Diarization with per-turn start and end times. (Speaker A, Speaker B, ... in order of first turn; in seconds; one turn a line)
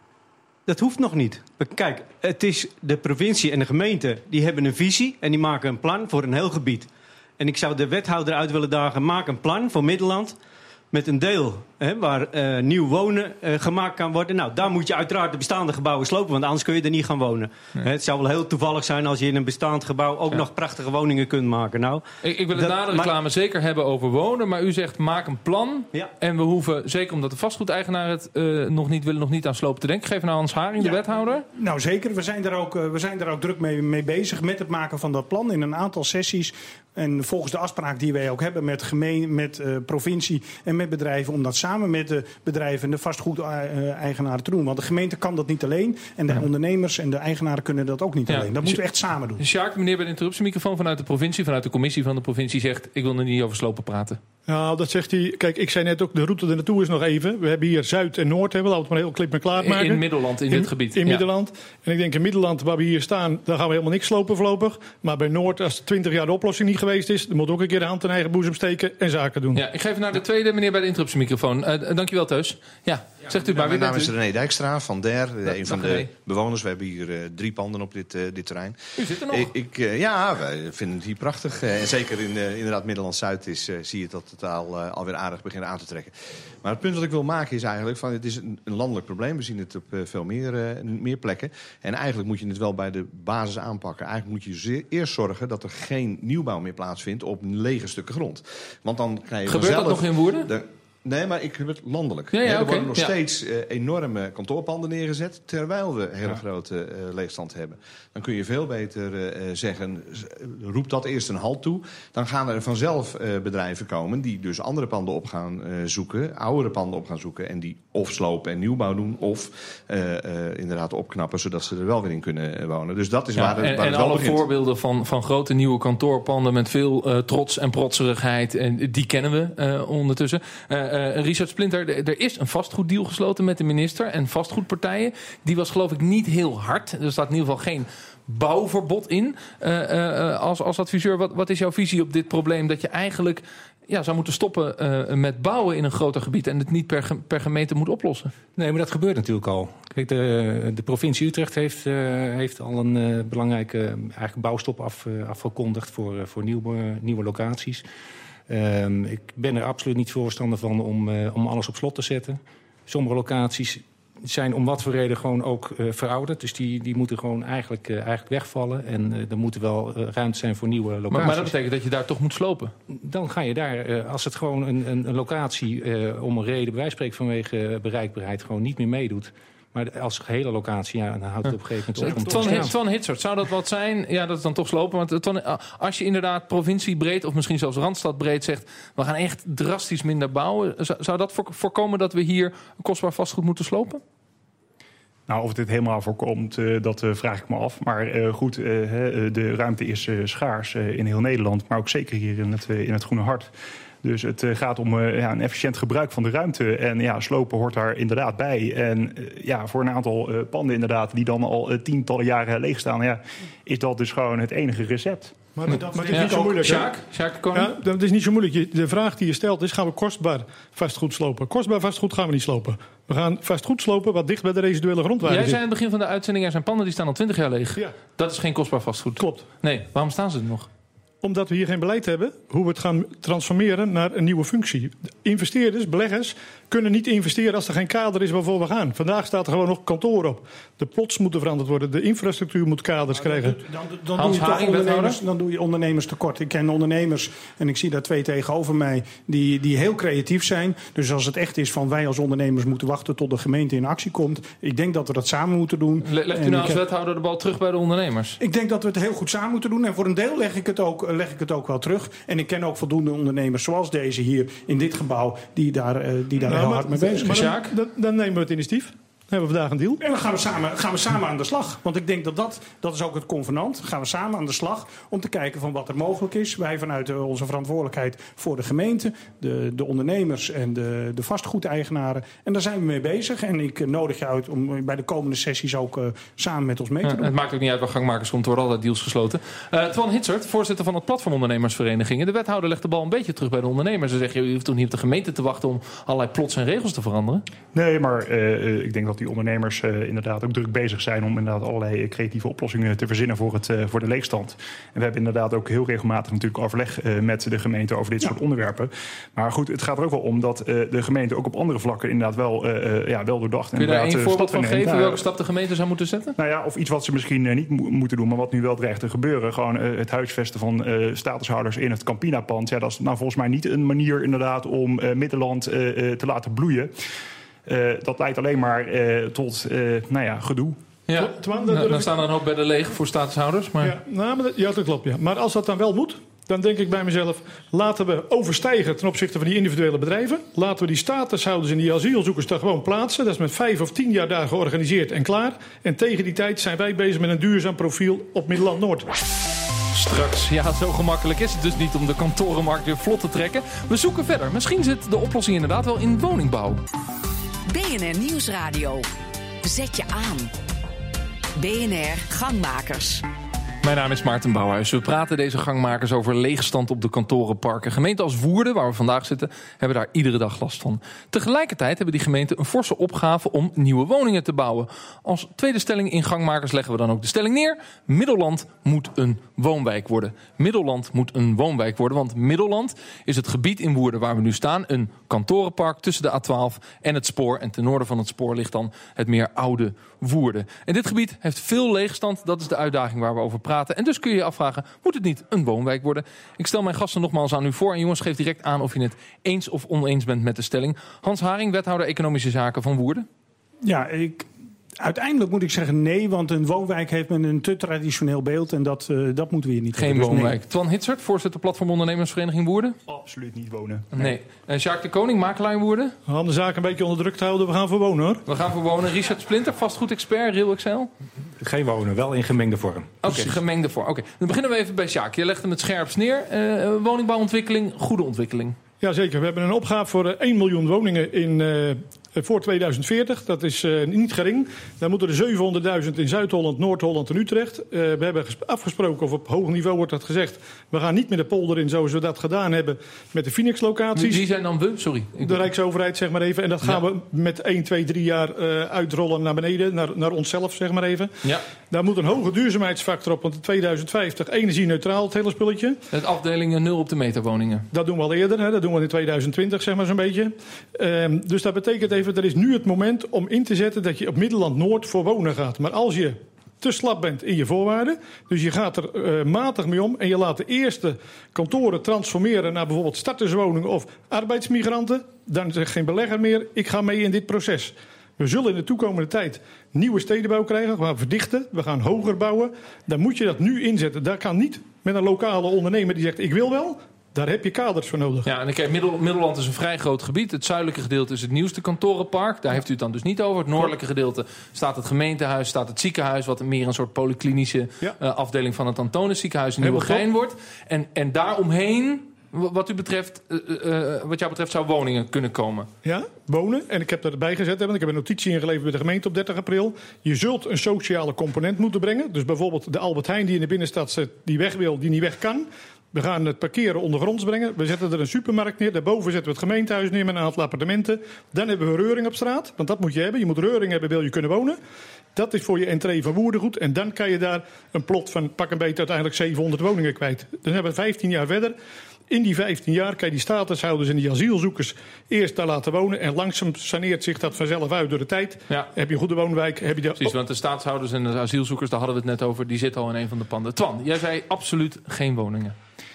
Speaker A: 0.7-6.9
Speaker A: 7.4-10.4
Speaker A: 10.9-23.1
Speaker B: 22.2-31.4
Speaker C: 30.8-49.4
Speaker B: 48.3-48.8
Speaker B: 49.4-54.2
Speaker D: 54.5-69.6
Speaker B: 59.5-61.2
Speaker B: 69.5-74.1
Speaker E: 73.3-124.4
Speaker B: 75.5-76.1
Speaker B: 79.0-79.5
Speaker B: 99.5-100.5
Speaker B: 102.3-103.1
Speaker B: 123.3-148.3
Speaker F: 148.6-157.8
Speaker F: 158.5-171.5
Speaker B: 171.1-172.7
Speaker F: 172.9-182.8
Speaker B: 181.5-194.0
Speaker G: 195.3-203.5
Speaker G: 204.0-215.3
Speaker D: 215.6-216.9
Speaker C: 215.6-216.9
Speaker B: 216.1-217.7
Speaker D: 217.5-225.6
Speaker B: 225.2-230.7
Speaker D: 229.2-229.4
Speaker D: 231.2-243.6
Speaker C: 243.1-256.8
Speaker B: 244.2-245.2
Speaker B: 256.0-258.4
Speaker C: 258.4-267.5
Speaker D: 266.5-270.0
Speaker B: 267.3-267.7
Speaker C: 270.0-287.3
Speaker B: 287.0-297.4
Speaker G: 297.7-315.2
Speaker B: 313.8-316.3
Speaker G: 316.4-326.9
Speaker G: 327.6-330.8
Speaker B: 331.1-333.9
Speaker D: 331.2-332.1
Speaker D: 333.8-349.1
Speaker B: 349.9-356.8
Speaker H: 357.7-359.1
Speaker H: 359.6-360.5
Speaker H: 361.6-363.2
Speaker B: 363.8-403.2
Speaker C: 403.8-410.6
Speaker B: 409.9-412.9
Speaker G: 413.1-414.1
Speaker B: 414.1-416.1
Speaker D: 416.3-418.4
Speaker B: 418.4-421.1
Speaker F: 421.6-423.2
Speaker B: 423.2-428.8
Speaker D: 429.0-444.4
Speaker B: 444.1-445.6
Speaker D: 445.4-451.3
Speaker D: 451.9-456.0
Speaker B: 456.1-457.9
Speaker D: 457.9-488.5
Speaker B: 488.4-505.9
Speaker D: 499.8-500.2
Speaker D: 506.0-524.8
Speaker D: 525.3-531.7
Speaker D: 532.3-540.3
Speaker B: 540.2-545.7